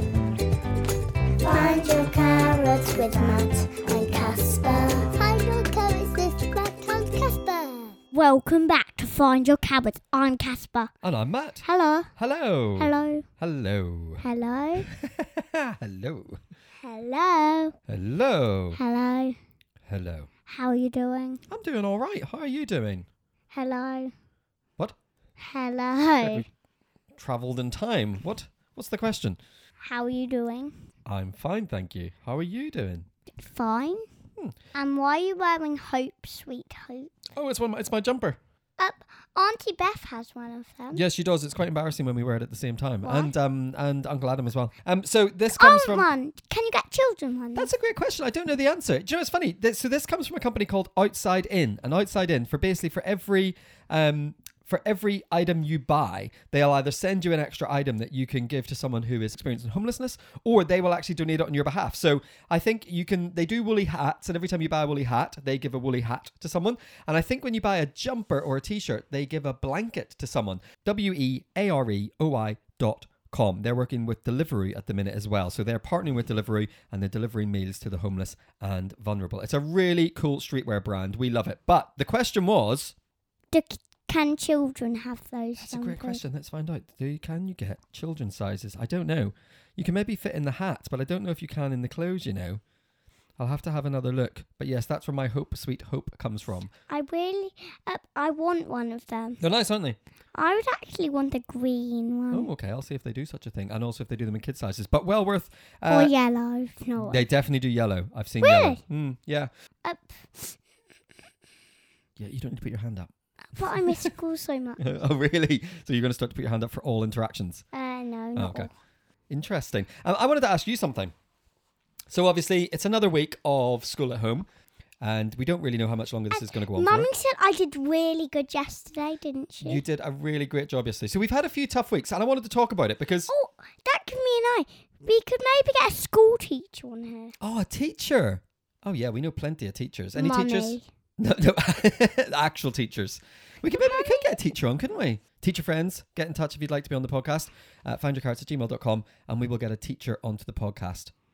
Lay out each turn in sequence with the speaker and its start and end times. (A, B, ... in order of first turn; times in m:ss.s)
0:01.4-0:05.2 A
0:05.2-0:08.0 B
0:08.1-0:10.9 A
0:11.0-0:11.6 C
0:11.6-0:12.1 A
0:12.2-0:14.2 C
0:12.8-0:13.2 A
0:14.2-0:14.9 A
0:14.9-0:16.4 C
0:16.8-0:17.8 A
0:17.9-0:18.8 C
0:18.7-0:19.4 A
0:19.9-0:20.3 C
0:20.5-0:21.4 A
0:21.5-0:23.1 C
0:23.5-0:24.1 A
0:25.4-0:26.5 A
0:26.2-0:26.5 C
0:27.1-0:29.4 C
0:29.8-0:30.8 A
0:31.1-0:33.1 C
0:33.4-0:34.0 A
0:34.7-0:37.1 A
0:37.3-0:38.4 C
0:38.8-0:41.0 A
0:40.9-0:46.1 C
0:43.0-0:43.3 A
0:45.5-0:47.7 A
0:47.6-1:22.9 C
1:23.5-1:26.2 A
1:25.6-1:32.6 C
1:33.4-1:36.7 C
1:36.9-1:39.4 A
1:39.4-1:40.0 C
1:40.4-1:42.5 A
1:42.3-1:46.1 C
1:45.9-1:47.2 A
1:47.0-1:49.5 C
1:48.4-1:48.8 A
1:49.8-1:50.6 A
1:52.2-1:53.1 C
1:53.5-1:54.9 A
1:53.6-1:54.1 C
1:54.8-1:57.6 C
1:57.7-1:58.7 A
1:58.4-1:58.7 C
1:59.3-2:01.1 C
2:02.1-2:04.4 C
2:05.0-2:07.1 C
2:06.3-2:09.8 A
2:09.6-2:13.3 C
2:13.3-2:17.3 A
2:17.4-2:31.1 C
2:20.1-2:20.8 A
2:23.7-2:24.4 A